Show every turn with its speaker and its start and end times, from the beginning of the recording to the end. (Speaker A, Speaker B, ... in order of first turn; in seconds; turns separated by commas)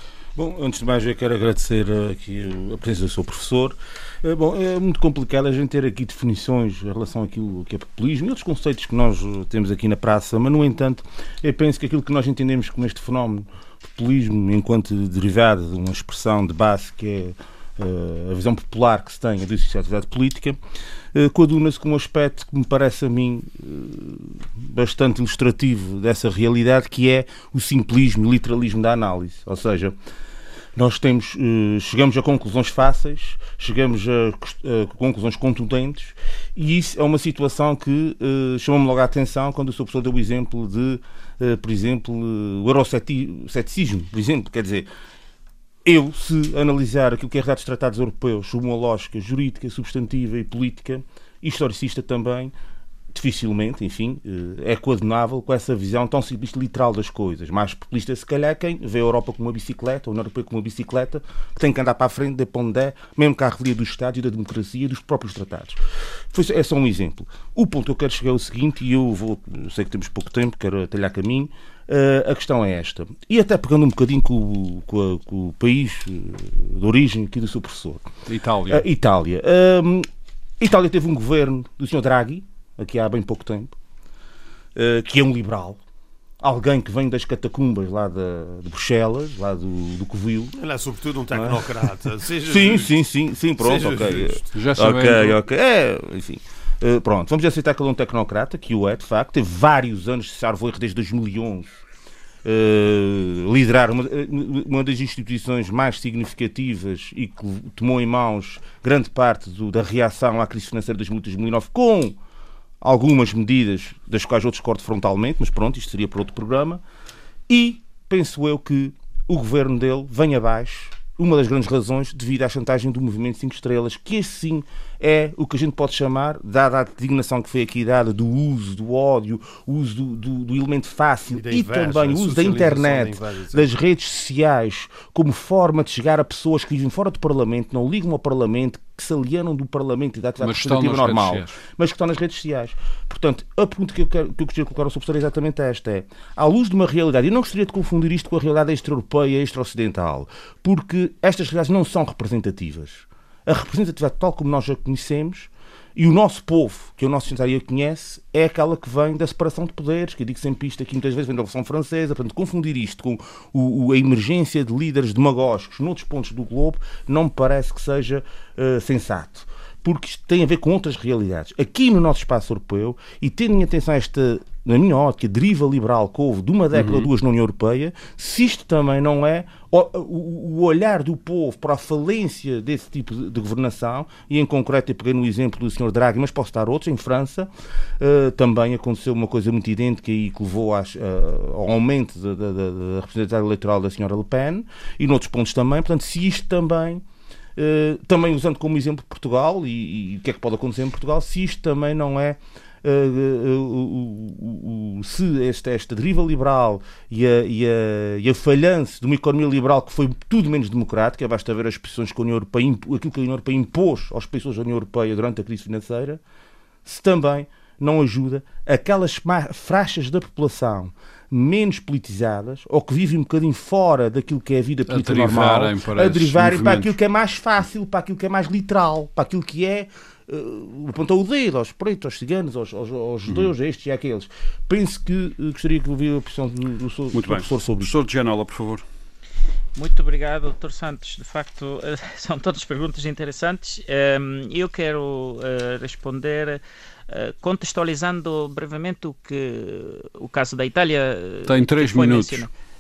Speaker A: 0.4-20.6, Speaker A: 21.1-30.0, Speaker A: 30.8-44.9, Speaker A: 45.8-52.5, Speaker A: 53.1-65.8, Speaker A: 66.3-78.1, Speaker B: 78.3-78.8, Speaker A: 78.7-80.1, Speaker A: 80.6-83.8, Speaker A: 84.8-85.8, Speaker A: 86.4-90.5, Speaker C: 90.5-93.0, Speaker A: 91.3-91.9, Speaker A: 92.4-101.7, Speaker C: 93.6-94.5, Speaker B: 94.5-95.4, Speaker A: 102.4-112.2, Speaker A: 112.8-116.8, Speaker A: 117.5-197.0, Speaker C: 131.3-133.7, Speaker B: 140.4-141.6, Speaker B: 176.7-177.1, Speaker A: 197.6-216.2, Speaker A: 216.8-237.9, Speaker B: 224.9-226.9, Speaker B: 233.3-233.5, Speaker B: 237.1-238.8, Speaker D: 239.8-252.5, Speaker B: 251.5-252.5